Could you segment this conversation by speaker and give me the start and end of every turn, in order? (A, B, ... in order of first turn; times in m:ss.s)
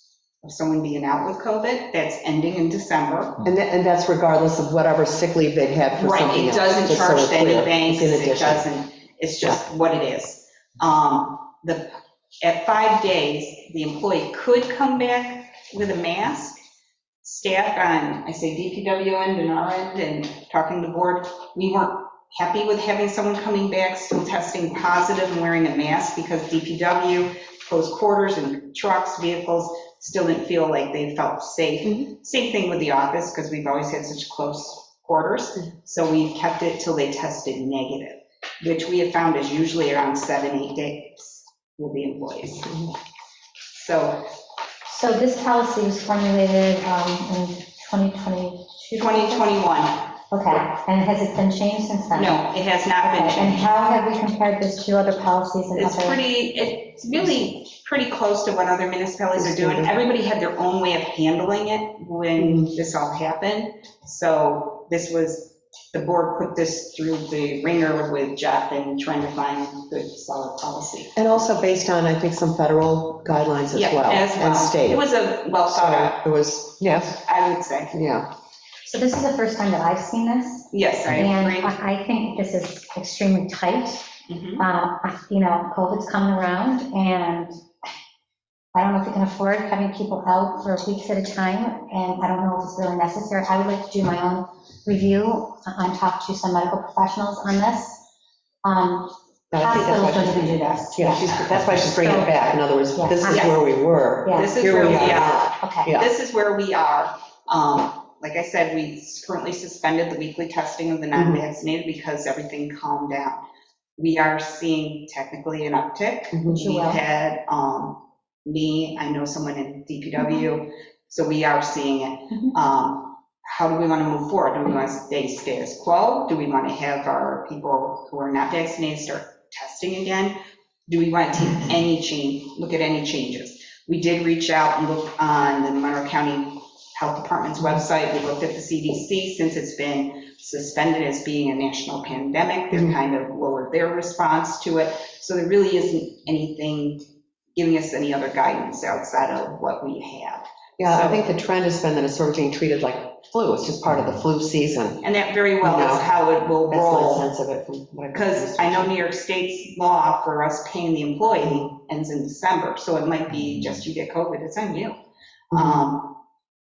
0:00.4-0:03.4 A
0:03.4-0:08.6 B
0:06.0-0:16.6 A
0:17.2-0:42.8 A
0:43.7-0:44.3 A
0:44.9-0:49.5 C
0:49.0-0:50.2 A
0:50.3-0:52.5 C
0:52.1-0:53.6 A
0:53.0-0:56.2 C
0:55.7-1:11.1 A
0:59.4-0:59.9 B
1:02.4-1:02.7 B
1:11.2-1:15.1 B
1:13.7-1:16.3 A
1:15.7-1:17.2 B
1:17.2-1:18.0 A
1:17.9-1:18.3 B
1:18.8-1:27.6 C
1:20.7-1:21.8 A
1:24.3-1:24.7 A
1:28.7-1:38.0 C
1:38.6-1:42.4 C
1:39.5-1:46.1 B
1:40.1-1:41.3 A
1:42.9-1:43.7 C
1:43.3-1:43.6 A
1:44.2-1:45.9 C
1:44.3-1:53.4 A
1:51.1-1:51.4 B
1:54.0-2:31.3 A
1:56.3-1:56.6 B
1:56.5-1:57.0 C
2:30.8-2:35.0 B
2:35.0-2:37.3 A
2:35.6-2:36.1 B
2:36.7-2:38.9 B
2:38.1-2:45.0 A
2:45.5-2:45.9 B
2:45.5-2:46.2 A